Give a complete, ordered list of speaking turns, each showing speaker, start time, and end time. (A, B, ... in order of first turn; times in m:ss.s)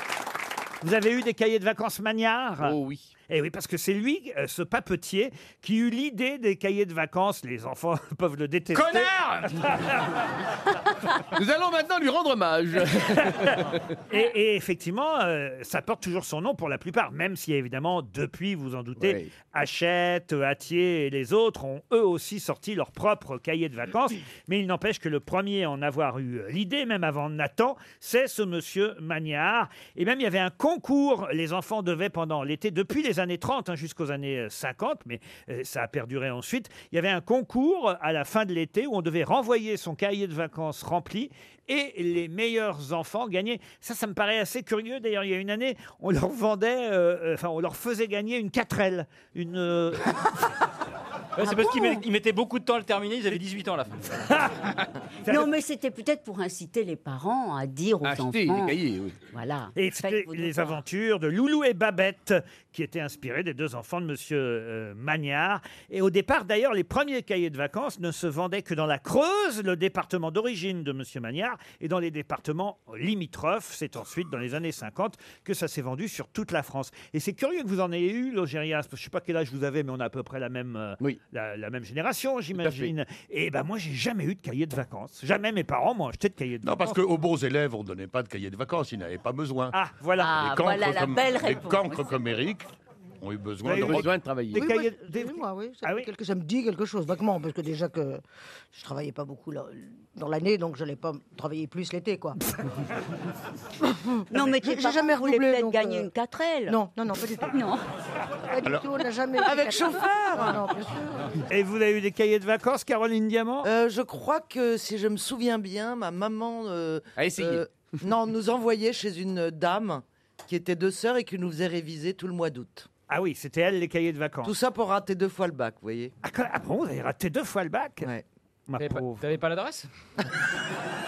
0:00.8-0:02.8 A
0:02.6-0:03.1 B
0:03.3-0:09.9 A
0:08.8-0:09.4 C
0:11.3-0:13.8 B
0:14.1-0:50.3 A
0:19.0-0:19.3 B
0:51.4-0:54.2 C
0:51.4-0:52.0 D
0:54.2-0:54.5 A
0:55.3-0:58.8 D
0:58.0-0:59.2 B
0:59.3-1:00.8 D
0:59.8-1:27.0 A
1:22.6-1:22.9 B
1:26.6-1:29.7 E
1:29.7-1:30.4 A
1:30.2-1:32.1 D
1:30.4-1:32.7 E
1:33.2-1:34.1 E
1:33.6-1:36.1 A
1:33.8-1:34.6 B
1:34.5-1:38.2 F
1:38.7-1:42.4 F
1:43.8-1:46.1 F
1:44.3-1:46.8 D
1:46.7-1:47.6 F
1:47.5-1:47.8 D
1:48.5-1:51.4 F
1:49.4-1:50.6 G
1:51.5-1:53.7 A
1:53.6-2:02.9 G
1:57.2-1:57.6 B
2:03.1-2:04.5 A
2:04.4-2:06.1 G
2:06.2-2:08.1 A
2:08.7-2:09.2 A
2:08.8-2:09.9 C